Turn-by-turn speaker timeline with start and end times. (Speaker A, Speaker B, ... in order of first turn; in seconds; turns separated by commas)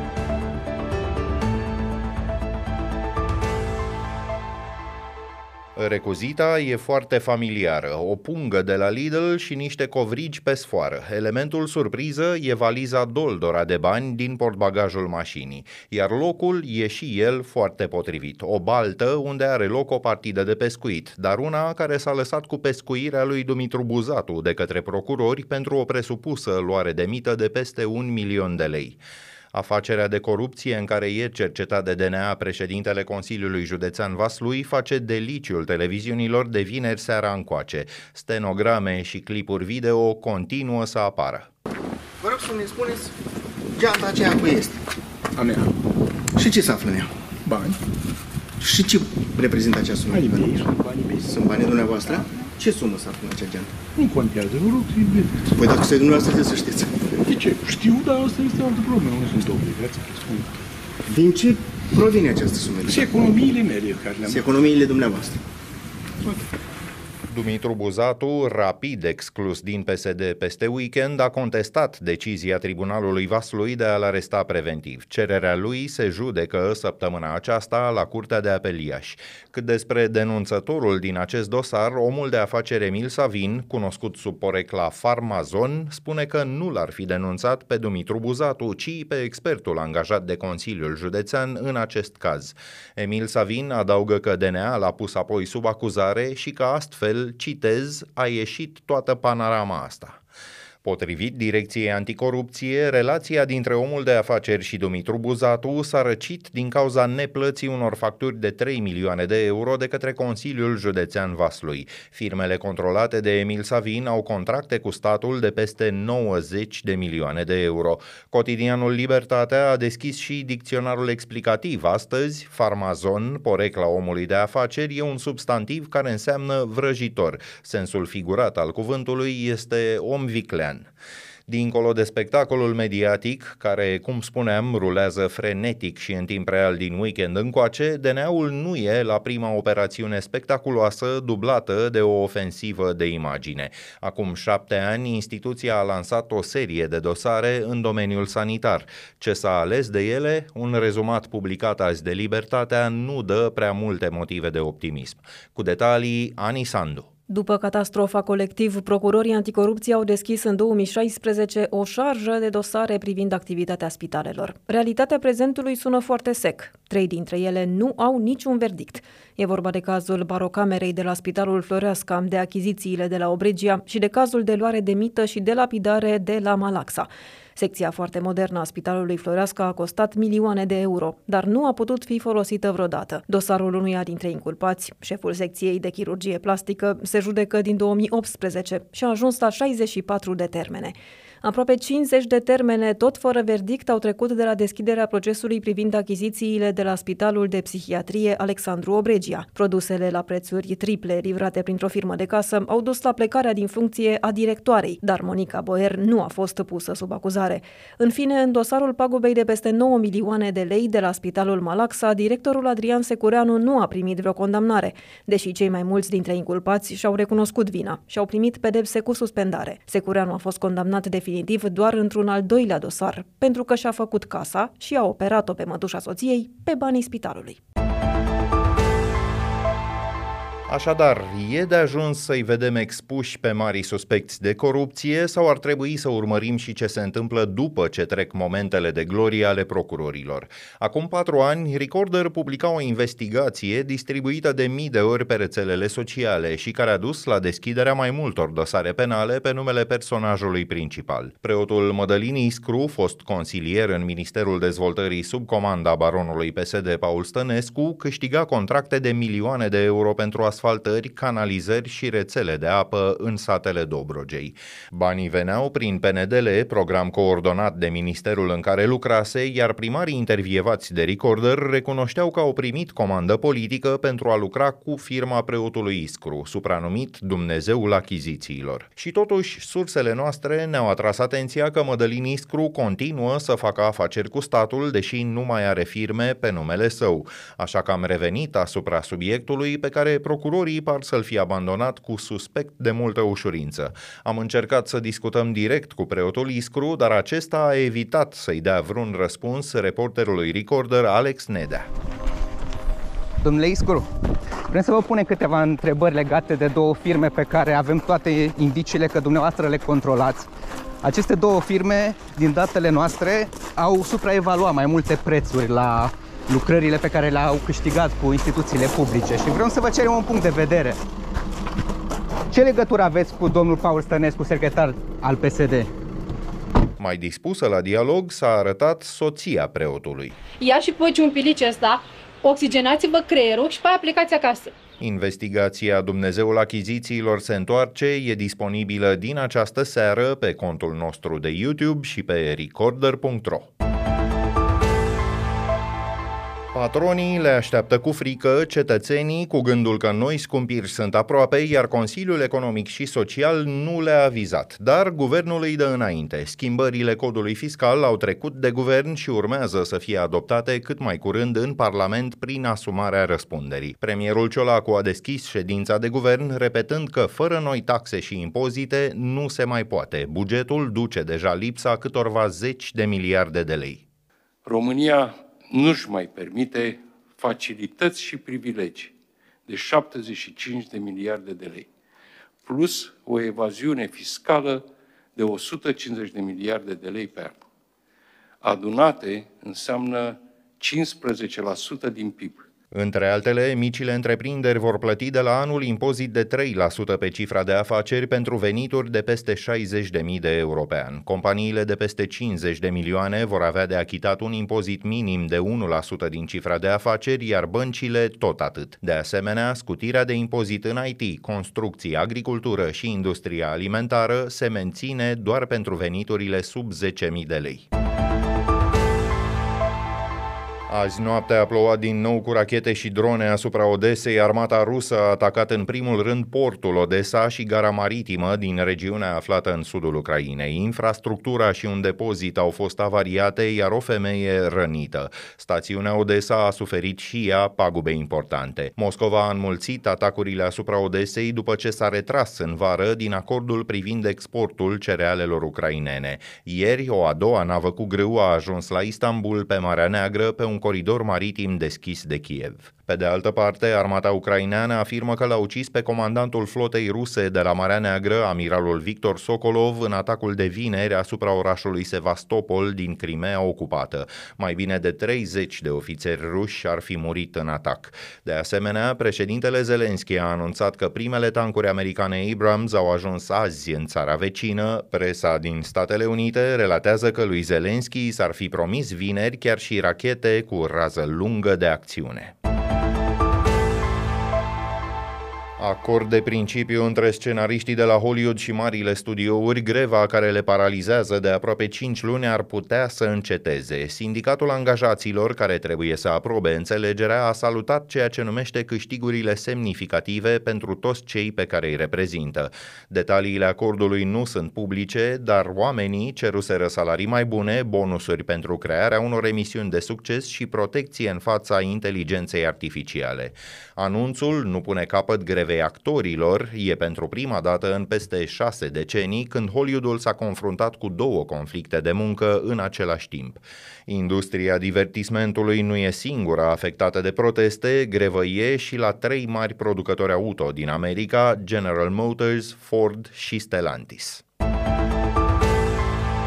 Speaker A: 5.8-29.0, Speaker A: 29.5-41.5, Speaker B: 42.2-43.1, Speaker B: 43.8-44.8, Speaker C: 45.4-45.7, Speaker B: 46.4-47.1, Speaker C: 47.5-47.8, Speaker B: 48.6-50.5, Speaker C: 50.1-51.4, Speaker B: 51.2-53.7, Speaker C: 54.0-55.5, Speaker B: 55.5-57.0, Speaker C: 57.2-60.6, Speaker B: 61.1-63.1, Speaker C: 62.8-64.5, Speaker B: 64.2-65.4, Speaker A: 67.3-100.2, Speaker A: 100.8-130.9, Speaker A: 131.5-157.1, Speaker D: 157.3-227.6, Speaker A: 230.7-301.9, Speaker E: 303.4-304.1, Speaker E: 304.7-310.5, Speaker E: 311.0-321.0, Speaker E: 322.5-325.9, Speaker A: 327.0-330.4, Speaker F: 330.6-334.7, Speaker A: 335.0-343.7, Speaker A: 346.7-374.0, Speaker G: 374.6-379.1, Speaker G: 379.7-381.9, Speaker G: 382.6-384.8, Speaker G: 385.4-387.5, Speaker G: 388.6-392.6, Speaker A: 392.9-417.9, Speaker A: 420.9-482.5, Speaker A: 485.8-534.4